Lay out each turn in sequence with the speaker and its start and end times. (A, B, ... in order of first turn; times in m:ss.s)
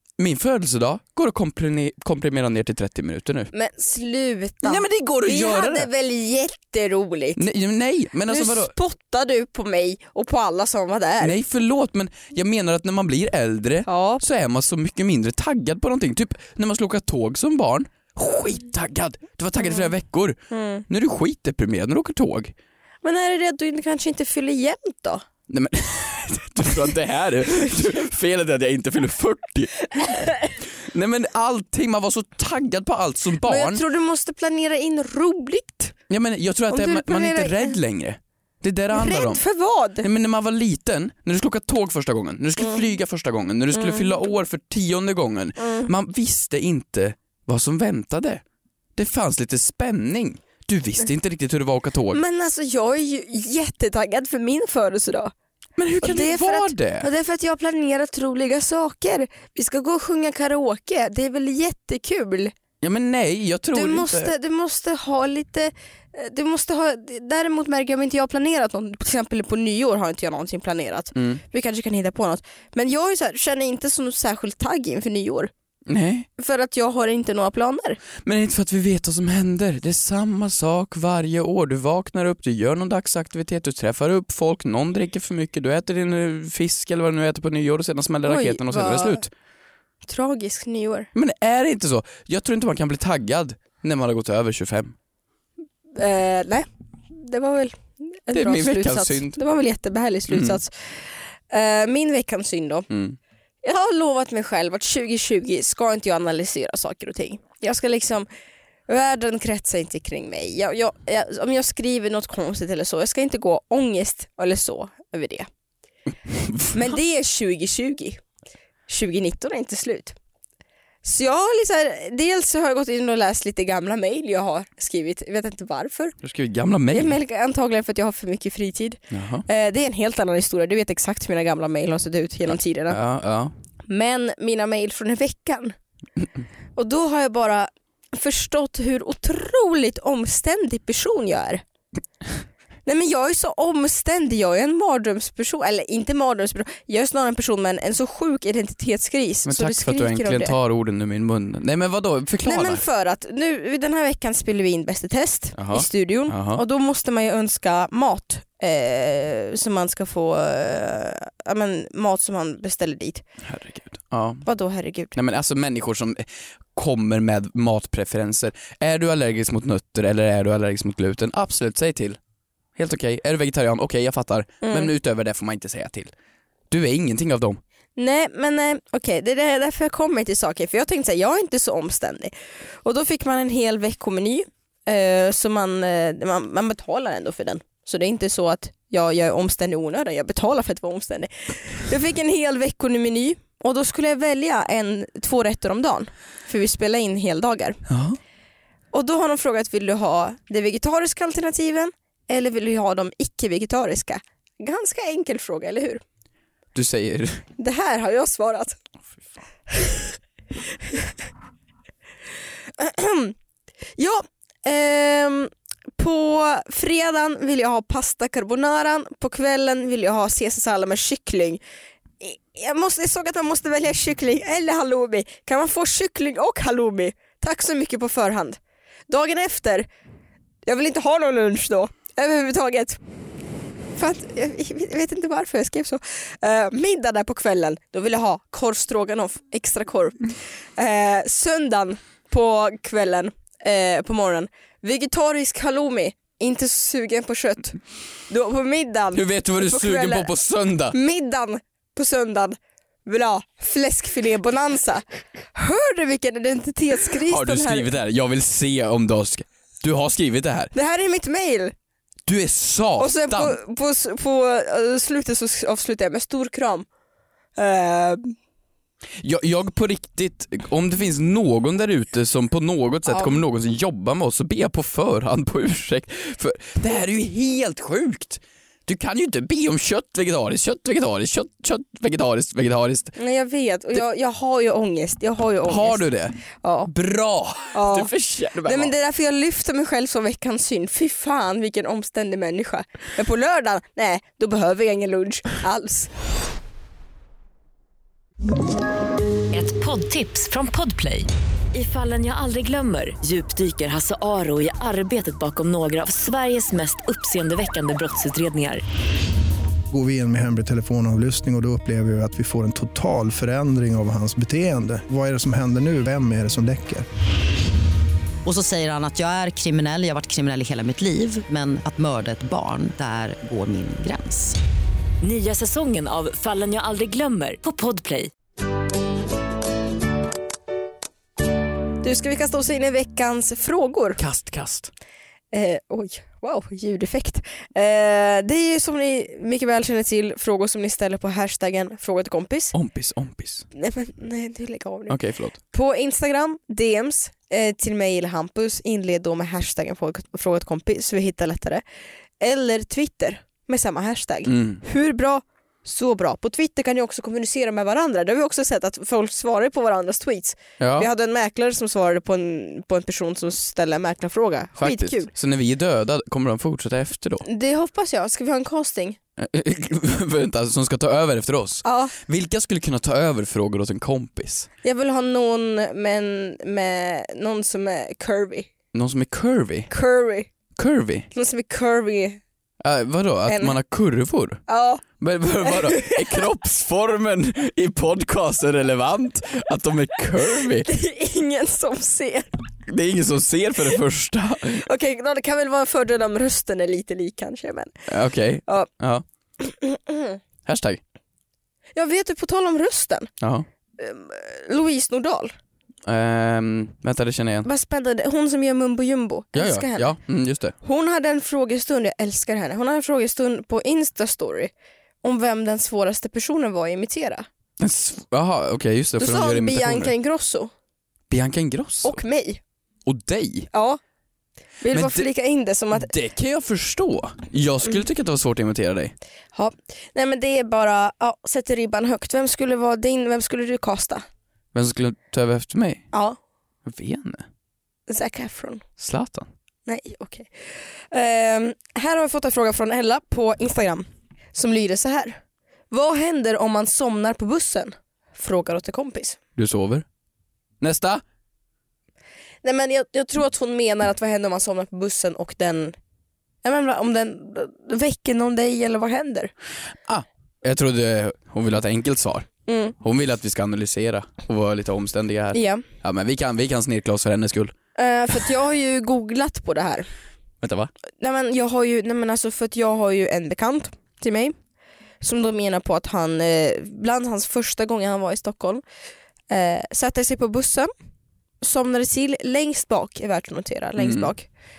0:00.2-0:03.5 A
0:03.5-0:07.4 B
0:04.6-0:05.9 A
0:07.4-0:08.7 A
0:08.3-0:11.3 B
0:11.2-0:20.4 A
0:13.8-0:14.2 B
0:19.6-0:19.9 B
0:20.5-0:20.8 B
0:20.9-0:22.5 A
0:23.0-0:25.2 B
0:25.5-0:33.8 A
0:30.0-0:30.4 B
0:33.4-0:35.9 B
0:36.1-0:39.4 A
0:36.7-0:37.8 B
0:38.9-0:40.1 B
0:40.0-0:48.4 A
0:42.6-0:42.8 B
0:43.7-0:44.1 B
0:45.6-0:45.9 B
0:49.0-0:52.2 A
0:52.1-0:55.3 B
0:55.8-0:57.1 A
0:56.0-1:02.5 B
1:02.8-1:04.3 A
1:03.7-1:15.5 B
1:11.1-1:11.4 A
1:15.9-1:16.3 A
1:16.4-1:18.0 B
1:18.2-1:29.3 A
1:28.2-1:29.2 B
1:30.0-1:31.1 B
1:31.1-1:34.9 A
1:36.0-1:42.9 B
1:38.3-1:39.4 A
1:40.3-1:40.6 A
1:42.9-1:43.2 A
1:43.6-1:48.3 B
1:48.9-1:55.5 B
1:56.4-1:56.8 A
1:56.7-1:58.2 B
1:58.9-2:00.2 B
2:01.0-2:06.2 B
2:06.2-2:07.1 A
2:06.9-2:13.0 B
2:09.1-2:09.4 A
2:12.9-2:13.5 A
2:13.9-2:15.8 B
2:16.8-2:21.6 B
2:22.8-2:30.5 B
2:29.4-2:32.8 A
2:32.4-2:43.2 B
2:35.6-2:36.6 A
2:43.4-2:44.4 A
2:44.4-2:45.1 B
2:45.1-2:52.2 A
2:52.8-2:56.1 A
2:54.6-2:54.9 B
2:56.7-2:57.6 A
2:58.0-3:02.3 B
3:02.8-3:17.8 B
3:17.9-3:18.2 A
3:18.9-3:26.0 B
3:26.7-3:27.4 A
3:27.6-3:28.8 B
3:29.7-3:30.2 B
3:30.8-3:31.1 B
3:32.8-3:33.3 B
3:34.0-3:41.6 B
3:42.2-3:49.9 B
3:50.6-3:53.0 B
3:54.0-4:10.3 B
4:09.1-4:11.0 A
4:10.9-4:17.9 B
4:17.1-4:20.7 A
4:20.7-4:21.7 B
4:22.2-4:23.6 A
4:23.0-4:26.8 B
4:27.6-4:28.3 B
4:29.2-4:43.2 A
4:33.1-4:33.4 B
4:43.2-4:46.0 B
4:45.6-4:48.9 A
4:46.6-4:46.9 B
4:47.7-4:48.1 B
4:48.6-4:56.1 B
4:59.5-5:08.8 C
5:09.9-5:17.0 D
5:18.4-5:24.6 E
5:25.2-5:28.3 C
5:32.0-5:34.2 B
5:34.2-5:34.9 A
5:35.5-5:42.8 B
5:42.7-5:43.6 A
5:43.7-5:45.2 B
5:45.1-5:45.6 A
5:45.7-5:51.8 B
5:52.4-6:05.3 B
5:54.4-5:54.8 A
6:00.8-6:01.1 A
6:04.8-6:07.4 A
6:07.4-6:09.2 B
6:09.4-6:14.7 A
6:11.8-6:12.1 B
6:14.8-6:18.7 B
6:18.9-6:19.9 A
6:19.9-6:20.5 B
6:20.8-6:21.3 A
6:21.3-6:22.4 B
6:22.8-6:24.6 A
6:23.5-6:23.8 B
6:24.7-6:25.0 B
6:25.2-6:30.9 A
6:25.6-6:26.4 B
6:30.8-6:32.5 B
6:32.9-6:34.8 A
6:34.7-6:38.0 B
6:38.1-6:39.2 A
6:39.6-6:40.4 B
6:40.6-6:41.0 A
6:41.9-6:43.3 B
6:43.4-6:43.6 A
6:44.0-6:45.5 B
6:46.0-6:47.7 A
6:47.6-6:50.1 B
6:49.5-6:50.7 A
6:50.8-6:54.7 B
6:55.2-6:57.5 B
6:57.8-7:00.1 A
6:59.2-7:00.7 B
7:01.3-7:02.2 A
7:02.0-7:02.6 B
7:03.0-7:03.7 A
7:03.7-7:04.0 B
7:04.8-7:06.1 B
7:04.9-7:05.3 A
7:05.9-7:09.1 A
7:09.5-7:14.2 B
7:14.7-7:16.0 A
7:16.1-7:16.4 B
7:16.8-7:17.4 A
7:18.1-7:18.8 B
7:19.0-7:19.5 A
7:19.8-7:20.5 B
7:21.1-7:25.4 B
7:25.9-7:29.4 B
7:29.6-7:30.0 A
7:30.8-7:31.2 A
7:32.6-7:35.9 B
7:36.6-7:39.5 B
7:40.0-7:42.5 A
7:42.7-7:42.9 B
7:43.0-7:47.7 A
7:45.5-7:45.8 B
7:48.0-7:50.1 B
7:50.6-7:50.9 A
7:51.2-7:54.5 B
7:55.2-7:58.8 B
7:59.5-8:00.9 B
8:01.6-8:04.5 B
8:04.0-8:04.3 A